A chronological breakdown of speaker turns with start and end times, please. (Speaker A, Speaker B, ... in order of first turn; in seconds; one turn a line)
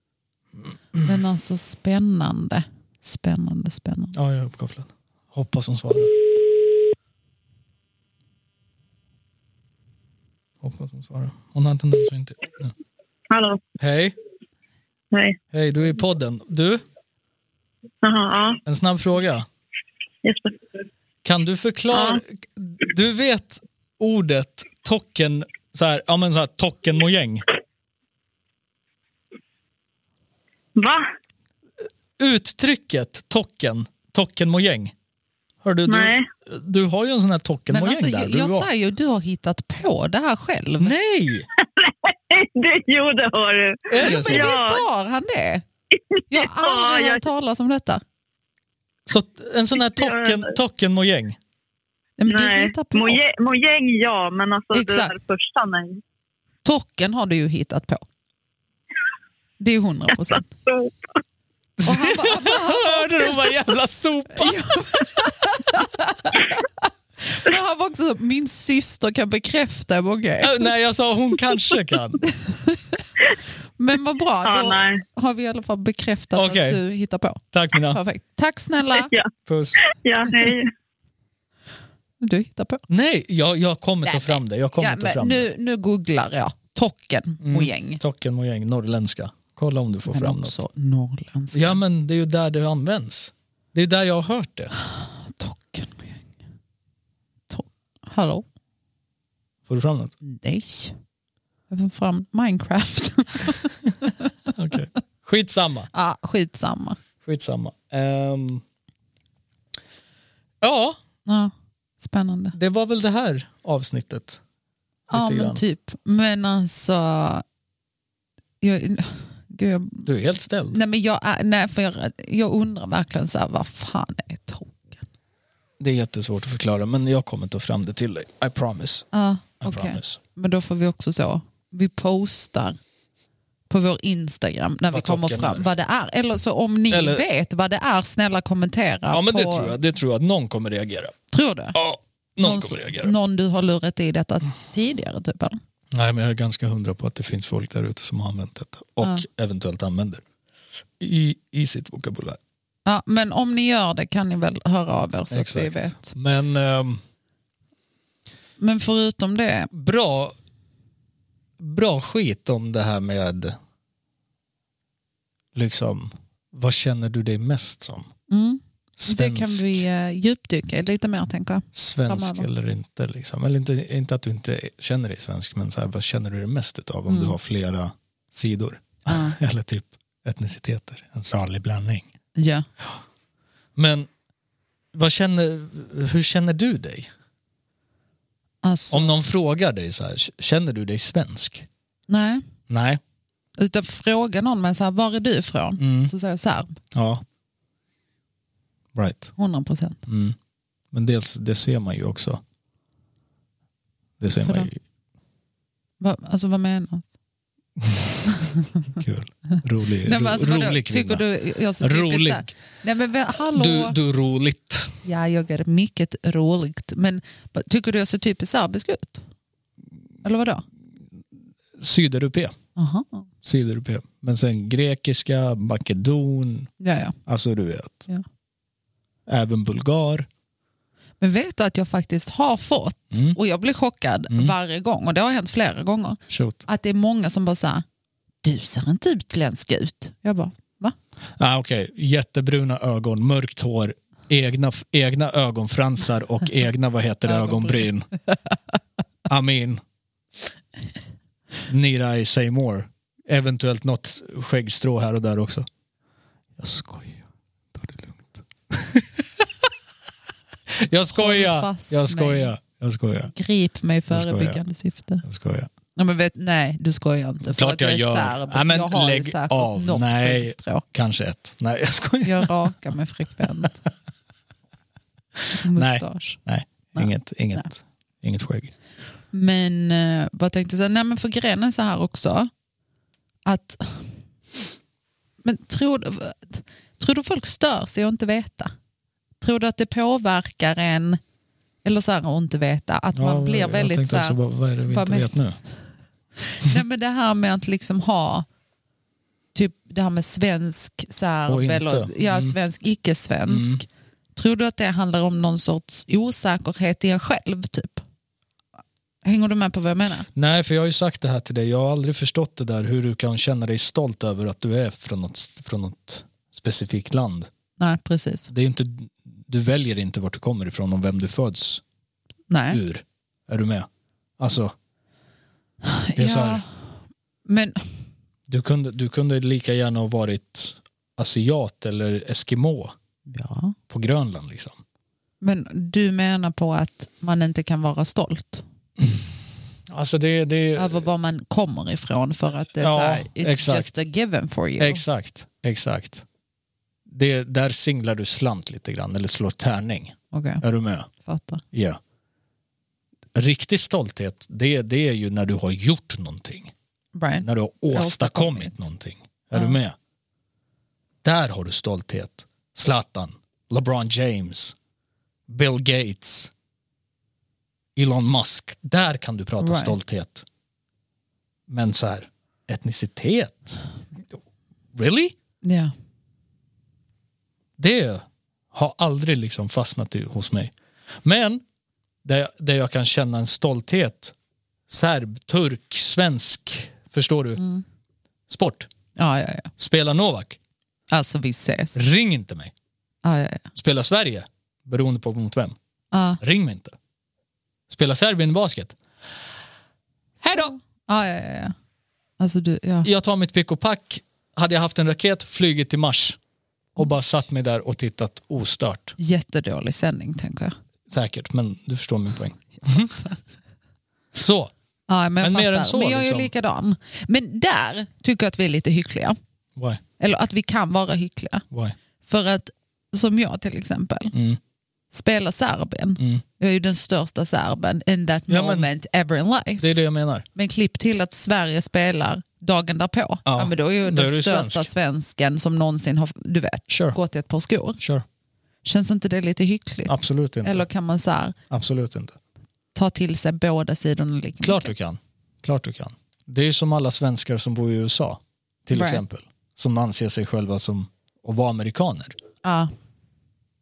Speaker A: 1.0-4.1
Speaker B: 4.1-6.1
Speaker B: 10.6-12.7
Speaker C: 13.3-13.6
Speaker B: 13.8-14.2
Speaker C: 15.1-15.4
Speaker B: 15.5-16.8
Speaker C: 18.0-18.6
Speaker B: 18.7-19.5
Speaker C: 20.2-20.6
Speaker B: 21.2-27.4
Speaker C: 21.9-22.2
Speaker C: 30.8-31.1
Speaker B: 32.2-34.9
Speaker B: 35.6-38.7
Speaker C: 35.9-36.3
Speaker A: 37.7-40.9
Speaker B: 40.8-41.5
Speaker C: 41.6-44.8
Speaker B: 43.9-44.5
Speaker A: 44.0-45.6
Speaker C: 46.1-47.2
Speaker A: 46.3-48.0
Speaker B: 49.1-51.4
Speaker C: 49.8-50.5
Speaker A: 52.2-53.2
Speaker C: 52.3-56.0
Speaker A: 54.7-55.1
Speaker A: 56.6-58.0
Speaker A: 59.6-60.5
Speaker C: 60.2-61.0
Speaker B: 61.8-64.7
Speaker A: 61.9-63.5
Speaker A: 64.3-70.7
Speaker B: 70.4-72.3
Speaker A: 72.2-73.1
Speaker A: 73.8-79.1
Speaker C: 74.4-75.0
Speaker B: 76.3-76.8
Speaker B: 77.5-78.0
Speaker C: 79.0-79.3
Speaker B: 79.5-79.9
Speaker C: 79.9-80.7
Speaker A: 82.2-82.8
Speaker B: 82.9-85.5
Speaker A: 84.0-88.0
Speaker B: 87.4-90.6
Speaker A: 90.1-91.8
Speaker B: 91.5-94.7
Speaker A: 94.8-96.3
Speaker A: 97.5-98.5
Speaker B: 99.7-100.2
Speaker A: 100.2-101.0
Speaker A: 101.7-104.3
Speaker B: 104.5-105.9
Speaker A: 105.9-107.0
Speaker B: 107.2-108.6
Speaker B: 110.6-111.0
Speaker A: 111.3-112.5
Speaker B: 112.5-114.4
Speaker B: 115.1-115.6
Speaker A: 115.1-117.4
Speaker A: 118.6-120.1
Speaker B: 120.0-120.8
Speaker A: 120.7-125.1
Speaker B: 125.8-129.1
Speaker A: 129.1-132.8
Speaker B: 129.6-130.2
Speaker A: 133.7-139.8
Speaker B: 134.9-135.7
Speaker B: 136.9-137.2
Speaker B: 139.1-141.2
Speaker A: 141.3-141.8
Speaker B: 141.8-143.1
Speaker A: 142.4-145.6
Speaker B: 145.9-150.2
Speaker B: 151.0-152.4
Speaker A: 152.9-156.1
Speaker B: 155.3-157.0
Speaker A: 158.6-159.7
Speaker B: 159.7-160.3
Speaker B: 161.6-163.6
Speaker B: 165.6-168.1
Speaker A: 168.3-172.5
Speaker B: 169.0-169.8
Speaker B: 171.8-182.1
Speaker A: 177.1-177.4
Speaker A: 179.1-179.4
Speaker A: 182.4-182.7
Speaker B: 183.8-184.1
Speaker B: 184.9-187.1
Speaker A: 188.6-189.1
Speaker B: 188.9-191.7
Speaker A: 192.1-192.5
Speaker B: 192.7-193.0
Speaker A: 193.6-196.8
Speaker B: 195.8-196.1
Speaker B: 196.9-197.2
Speaker B: 198.9-199.3
Speaker A: 199.4-200.0
Speaker B: 200.1-200.4
Speaker B: 200.9-202.4
Speaker B: 204.2-204.8
Speaker A: 204.4-204.7
Speaker A: 206.0-207.1
Speaker B: 207.8-211.2
Speaker A: 208.3-208.7
Speaker A: 210.0-214.0
Speaker B: 211.8-212.6
Speaker B: 213.5-215.0
Speaker A: 215.0-219.2
Speaker A: 220.2-220.6
Speaker B: 221.8-222.6
Speaker A: 222.8-223.2
Speaker B: 223.4-226.7
Speaker A: 226.8-227.2
Speaker B: 227.3-228.1
Speaker B: 229.3-230.3
Speaker A: 231.2-237.8
Speaker B: 233.1-233.4
Speaker B: 236.3-236.6
Speaker A: 238.4-241.0
Speaker B: 241.4-248.1
Speaker A: 247.3-247.9
Speaker B: 249.3-249.8
Speaker B: 251.7-255.7
Speaker B: 256.6-259.4
Speaker B: 260.8-263.3
Speaker A: 261.1-262.5
Speaker A: 263.3-265.2
Speaker B: 264.1-264.6
Speaker B: 265.2-265.7
Speaker A: 266.0-270.8
Speaker B: 267.4-272.7
Speaker A: 272.2-273.8
Speaker B: 275.4-278.7
Speaker A: 275.6-276.4
Speaker A: 277.0-277.7
Speaker A: 279.3-282.5
Speaker A: 283.5-284.2
Speaker A: 285.4-288.7
Speaker A: 289.4-291.2
Speaker A: 291.8-295.8
Speaker B: 293.1-295.6
Speaker A: 296.4-298.5
Speaker A: 299.5-308.0
Speaker B: 301.5-302.6
Speaker B: 303.5-303.8
Speaker A: 309.2-310.3
Speaker B: 310.3-317.5
Speaker A: 317.8-318.5
Speaker B: 318.5-321.8
Speaker A: 322.5-322.8
Speaker B: 322.7-323.9
Speaker B: 324.4-324.8
Speaker A: 325.8-326.9
Speaker B: 326.2-326.6
Speaker A: 327.5-327.9
Speaker B: 328.5-332.9
Speaker A: 333.3-333.8
Speaker B: 333.9-334.8
Speaker A: 335.4-338.6
Speaker B: 339.9-341.1
Speaker A: 340.8-345.0
Speaker B: 342.8-344.0
Speaker B: 344.8-346.2
Speaker B: 347.1-351.1
Speaker A: 350.3-350.6
Speaker A: 351.2-351.6
Speaker B: 351.7-352.0
Speaker B: 353.4-356.7
Speaker A: 357.1-358.9
Speaker B: 357.4-360.0
Speaker B: 361.2-364.8
Speaker B: 365.5-366.5
Speaker B: 368.0-370.5
Speaker A: 369.6-370.0
Speaker B: 371.7-373.8
Speaker B: 374.9-375.4
Speaker A: 375.6-375.9
Speaker B: 377.8-380.7
Speaker B: 381.2-381.6
Speaker B: 382.2-384.3
Speaker B: 384.9-387.6
Speaker A: 387.6-387.8
Speaker B: 388.5-388.9
Speaker A: 389.2-389.7
Speaker B: 389.8-390.6
Speaker A: 391.1-392.0
Speaker B: 391.9-392.7
Speaker A: 393.2-393.7
Speaker B: 393.7-395.8
Speaker A: 396.1-396.4
Speaker B: 396.4-397.0
Speaker B: 397.9-399.0
Speaker A: 400.4-401.8
Speaker B: 400.4-400.7
Speaker A: 402.4-403.1
Speaker B: 403.0-406.4
Speaker B: 407.0-409.2
Speaker A: 409.2-410.8
Speaker B: 411.1-413.3
Speaker B: 414.4-414.7
Speaker A: 415.1-419.4
Speaker B: 415.4-416.5
Speaker B: 419.8-420.0
Speaker A: 420.2-421.6
Speaker B: 421.7-422.0
Speaker A: 422.2-424.3
Speaker B: 424.3-424.6
Speaker A: 425.1-429.9
Speaker B: 428.5-428.9
Speaker B: 429.8-430.5
Speaker A: 430.6-438.0
Speaker B: 433.4-434.9
Speaker B: 436.9-437.2
Speaker B: 438.0-438.2
Speaker A: 438.8-441.6
Speaker B: 440.1-440.9
Speaker B: 441.7-442.4
Speaker A: 442.9-444.9
Speaker B: 444.6-452.4
Speaker A: 448.9-449.2
Speaker A: 452.6-452.9